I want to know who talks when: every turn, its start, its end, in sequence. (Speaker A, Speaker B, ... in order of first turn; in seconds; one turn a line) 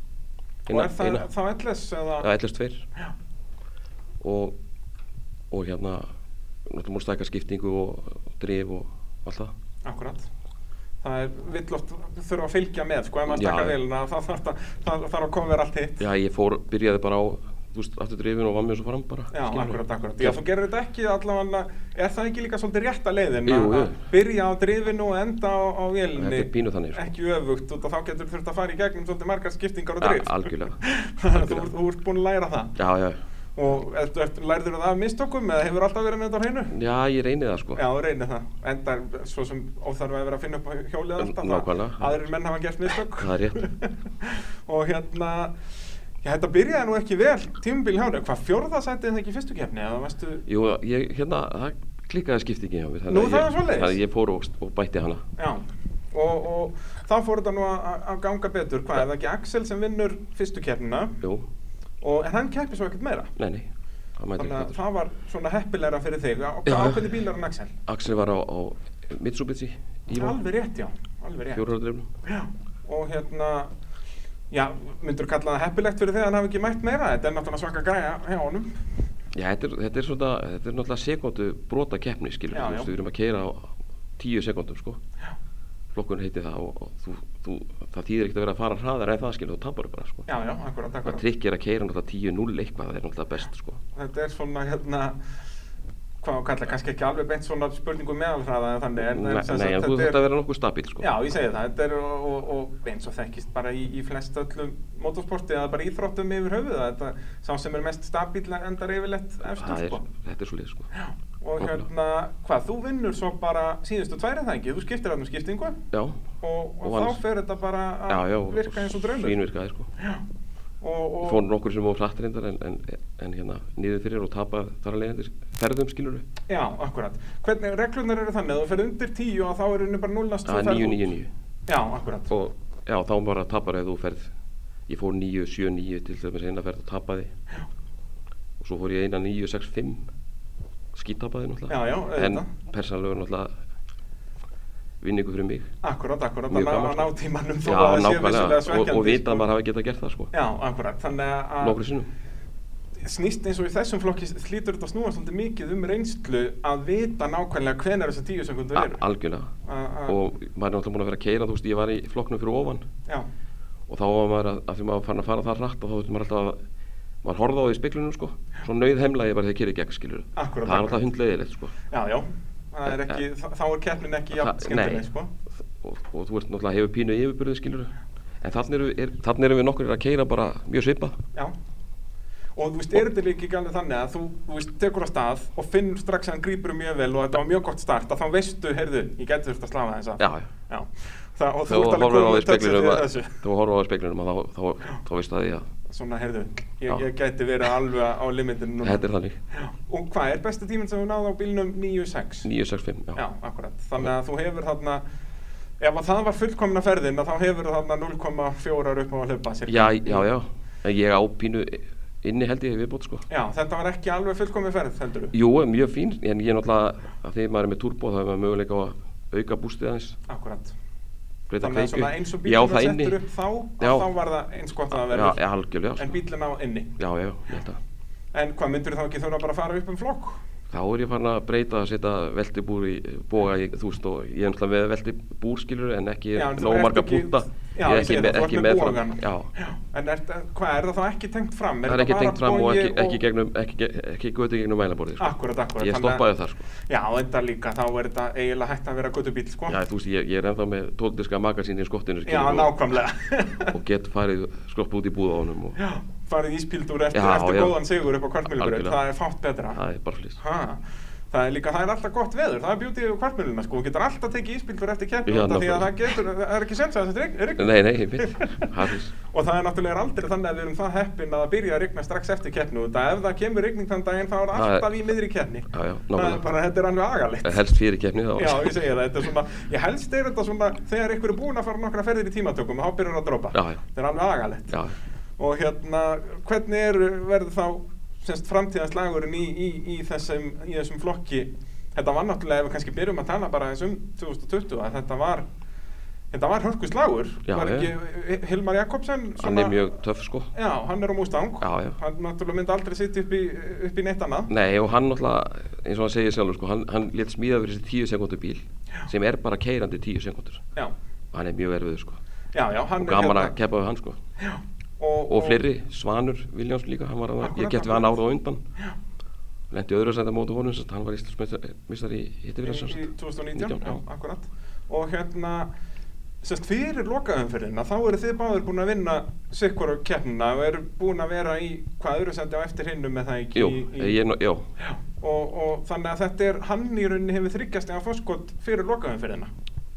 Speaker A: 0.7-1.3
Speaker B: 0.7-2.3
Speaker A: 2.2-2.8
Speaker A: 4.2-4.5
Speaker A: 5.5-6.1
Speaker A: 6.7-9.5
Speaker B: 9.8-10.3
Speaker B: 11.0-16.0
Speaker A: 13.3-13.7
Speaker A: 16.0-20.4
Speaker B: 19.3-32.7
Speaker A: 23.5-23.9
Speaker A: 26.1-27.1
Speaker A: 30.0-31.7
Speaker A: 32.8-33.2
Speaker B: 33.5-36.7
Speaker A: 36.7-37.8
Speaker B: 37.8-45.6
Speaker A: 41.2-42.2
Speaker A: 43.2-43.6
Speaker B: 46.2-50.4
Speaker A: 50.5-55.2
Speaker B: 53.1-54.0
Speaker B: 55.4-61.2
Speaker B: 62.0-63.3
Speaker A: 63.4-64.7
Speaker B: 64.4-67.7
Speaker A: 66.7-67.0
Speaker A: 67.9-70.4
Speaker B: 70.1-71.6
Speaker A: 71.5-72.1
Speaker B: 72.2-73.7
Speaker B: 74.5-78.8
Speaker A: 79.3-85.0
Speaker B: 82.5-82.9
Speaker A: 85.9-90.2
Speaker B: 90.3-91.2
Speaker A: 91.0-93.8
Speaker B: 93.9-95.2
Speaker B: 96.2-100.2
Speaker A: 99.0-101.1
Speaker B: 101.0-110.0
Speaker A: 109.6-110.9
Speaker B: 110.9-115.8
Speaker A: 111.6-111.8
Speaker A: 115.9-116.2
Speaker B: 116.4-119.4
Speaker A: 116.8-117.2
Speaker A: 118.1-119.9
Speaker B: 120.8-121.4
Speaker A: 121.2-126.2
Speaker B: 126.5-131.1
Speaker A: 130.4-131.3
Speaker B: 131.7-132.3
Speaker A: 132.3-134.3
Speaker A: 134.9-137.3
Speaker A: 138.6-140.1
Speaker A: 140.9-143.5
Speaker B: 141.7-142.5
Speaker A: 145.0-145.7
Speaker B: 145.8-149.4
Speaker A: 146.5-147.1
Speaker A: 147.6-150.3
Speaker B: 150.3-151.8
Speaker A: 151.6-152.1
Speaker B: 153.0-159.0
Speaker A: 158.7-159.5
Speaker B: 159.7-160.2
Speaker A: 160.1-162.8
Speaker A: 163.9-166.6
Speaker A: 167.2-171.7
Speaker B: 170.3-171.0
Speaker B: 171.9-175.3
Speaker A: 172.9-173.2
Speaker A: 174.3-175.1
Speaker A: 175.6-181.2
Speaker B: 182.6-193.3
Speaker A: 190.2-190.5
Speaker A: 191.7-195.7
Speaker B: 195.9-202.5
Speaker A: 198.8-199.4
Speaker A: 202.4-203.2
Speaker B: 203.1-205.0
Speaker B: 205.8-210.2
Speaker A: 209.7-213.2
Speaker B: 213.3-215.3
Speaker A: 215.3-220.2
Speaker B: 220.3-220.7
Speaker A: 221.5-223.2
Speaker B: 221.6-225.4
Speaker A: 223.8-224.1
Speaker A: 224.9-226.2
Speaker B: 226.0-226.9
Speaker A: 227.0-227.8
Speaker B: 228.3-230.4
Speaker A: 230.7-239.5
Speaker B: 236.3-243.2
Speaker A: 241.8-246.7
Speaker B: 245.2-246.2
Speaker B: 246.8-249.8
Speaker A: 249.7-252.7
Speaker B: 252.2-253.7
Speaker A: 253.7-255.8
Speaker B: 255.8-259.8
Speaker A: 257.1-257.8
Speaker A: 258.5-259.0
Speaker A: 259.7-260.4
Speaker B: 260.4-268.6
Speaker A: 265.3-266.1
Speaker A: 267.6-269.1
Speaker B: 269.2-277.6
Speaker A: 274.5-274.9
Speaker A: 275.7-276.4
Speaker A: 277.4-278.8
Speaker B: 278.4-284.8
Speaker A: 283.5-283.8
Speaker A: 284.7-284.9
Speaker B: 285.4-295.5
Speaker B: 296.3-299.8
Speaker A: 297.5-297.9
Speaker A: 299.4-300.5
Speaker B: 300.5-304.5
Speaker A: 301.6-301.9
Speaker A: 304.5-310.6
Speaker A: 311.3-312.2
Speaker B: 312.5-313.5
Speaker A: 313.0-314.2
Speaker B: 314.4-315.6
Speaker A: 315.3-318.6
Speaker B: 317.4-318.1
Speaker A: 319.7-324.0
Speaker B: 322.6-325.7
Speaker B: 326.4-334.2
Speaker A: 333.5-334.6
Speaker B: 334.8-339.5